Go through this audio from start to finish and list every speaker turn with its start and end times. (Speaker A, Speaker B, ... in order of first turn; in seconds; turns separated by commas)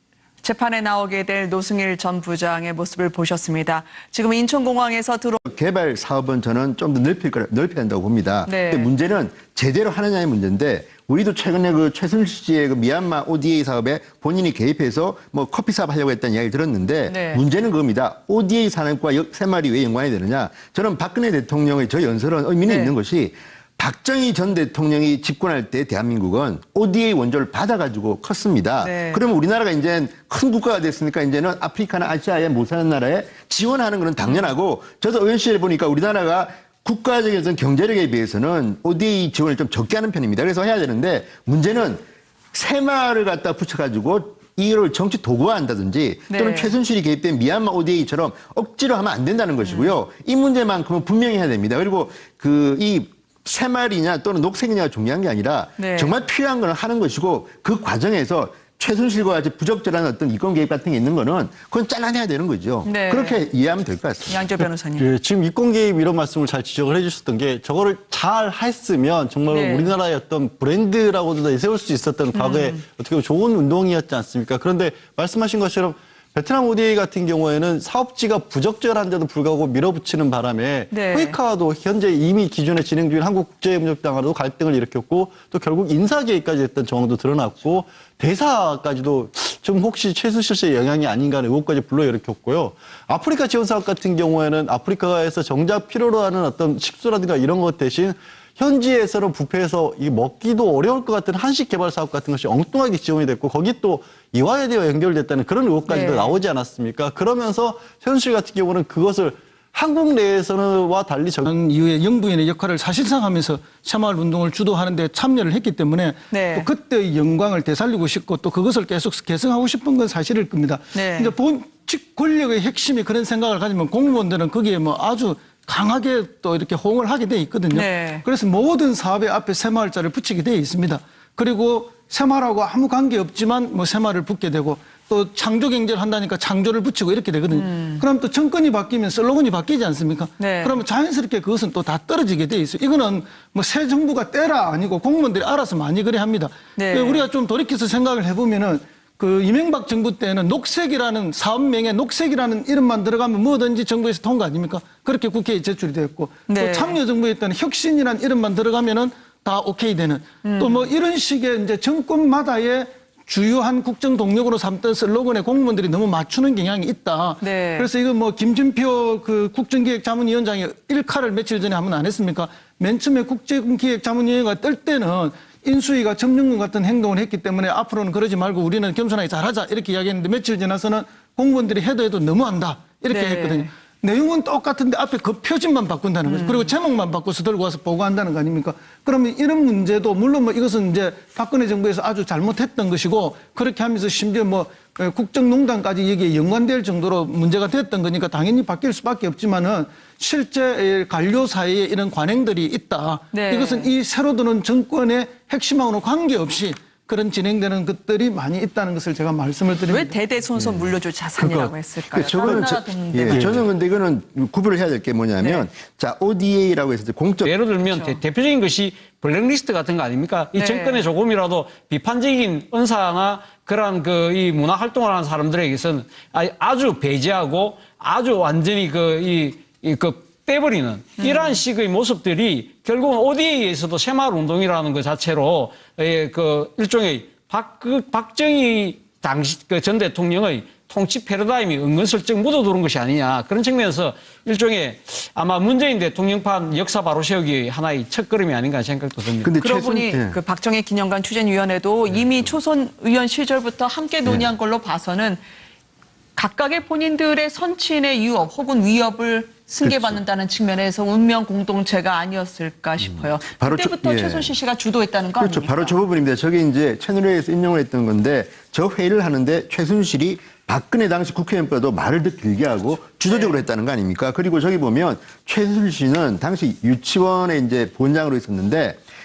Speaker A: 0.4-5.4, Speaker B: 5.4-64.4, Speaker A: 8.4-8.9, Speaker A: 17.1-17.4, Speaker A: 22.7-22.9, Speaker A: 28.8-29.2, Speaker A: 46.3-46.7, Speaker A: 49.6-49.9, Speaker A: 55.8-56.1, Speaker A: 62.8-63.4, Speaker A: 64.3-65.1, Speaker C: 65.0-111.5, Speaker A: 69.5-69.9, Speaker A: 72.3-72.8, Speaker A: 80.9-81.4, Speaker A: 105.8-106.4, Speaker D: 111.4-210.2, Speaker A: 116.3-116.7, Speaker A: 120.9-121.3, Speaker A: 127.7-128.2, Speaker A: 137.5-138.0, Speaker A: 140.4-140.8, Speaker A: 146.8-147.3, Speaker A: 156.5-157.0, Speaker A: 160.4-160.9, Speaker A: 167.4-167.9, Speaker A: 183.1-183.7, Speaker A: 186.2-186.7, Speaker A: 203.3-203.9, Speaker A: 209.9-213.5, Speaker B: 212.1-217.5, Speaker C: 213.3-213.6, Speaker A: 215.4-215.7, Speaker E: 217.4-249.5, Speaker A: 217.8-218.2, Speaker A: 220.5-221.0, Speaker A: 231.2-231.6, Speaker B: 249.4-250.4, Speaker A: 249.6-255.4, Speaker A: 256.4-265.9, Speaker B: 259.8-260.2, Speaker B: 263.0-264.5, Speaker B: 265.4-279.0, Speaker A: 273.3-273.6